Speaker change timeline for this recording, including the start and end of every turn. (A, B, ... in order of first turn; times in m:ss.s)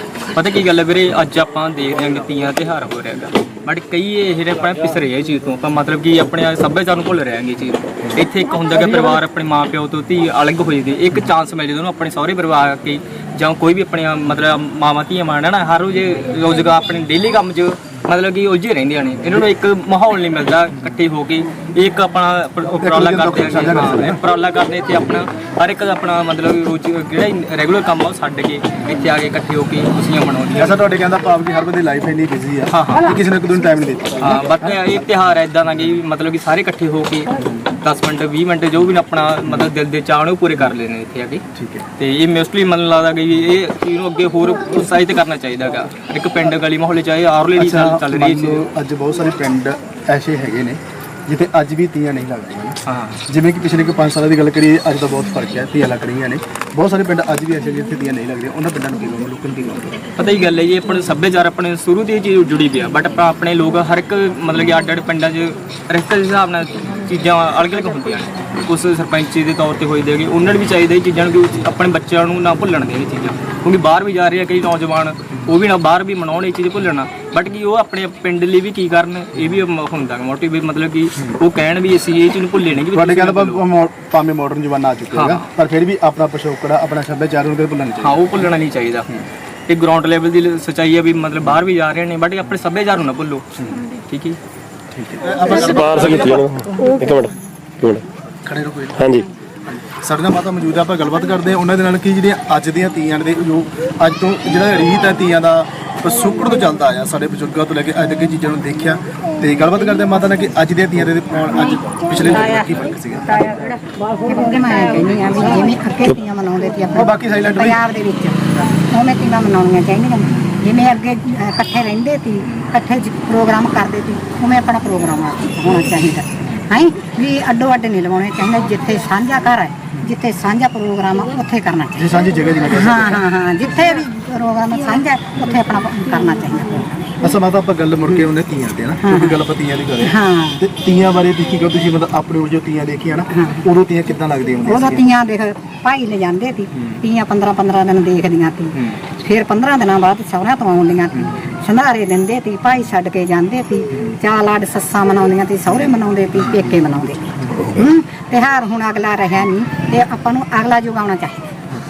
0:00.3-0:30.8 A
0:22.8-0:24.2 B
0:30.5-0:34.8 B
0:32.7-0:33.1 A
0:34.2-0:37.3 A
0:37.8-0:41.4 A
0:41.5-0:41.9 B
0:42.0-0:48.6 A
0:47.6-1:00.0 B
0:52.9-0:53.2 A
1:00.2-1:23.6 A
1:22.9-1:28.4 B
1:25.1-1:25.5 A
1:28.0-1:29.1 A
1:29.7-1:33.4 A
1:34.0-1:34.4 A
1:34.9-1:36.5 B
1:35.6-1:38.0 C
1:35.7-1:36.2 A
1:38.4-1:39.1 B
1:39.0-1:39.3 C
1:39.7-1:53.6 B
1:54.2-2:12.1 D
1:56.9-1:57.8 B
2:00.3-2:00.6 B
2:12.0-2:13.2 B
2:12.7-2:17.2 D
2:17.2-2:25.0 B
2:19.0-2:19.4 D
2:20.0-2:20.6 D
2:23.3-2:23.6 D
2:24.6-2:41.5 D
2:31.1-2:31.4 B
2:35.7-2:36.7 B
2:37.4-2:37.7 B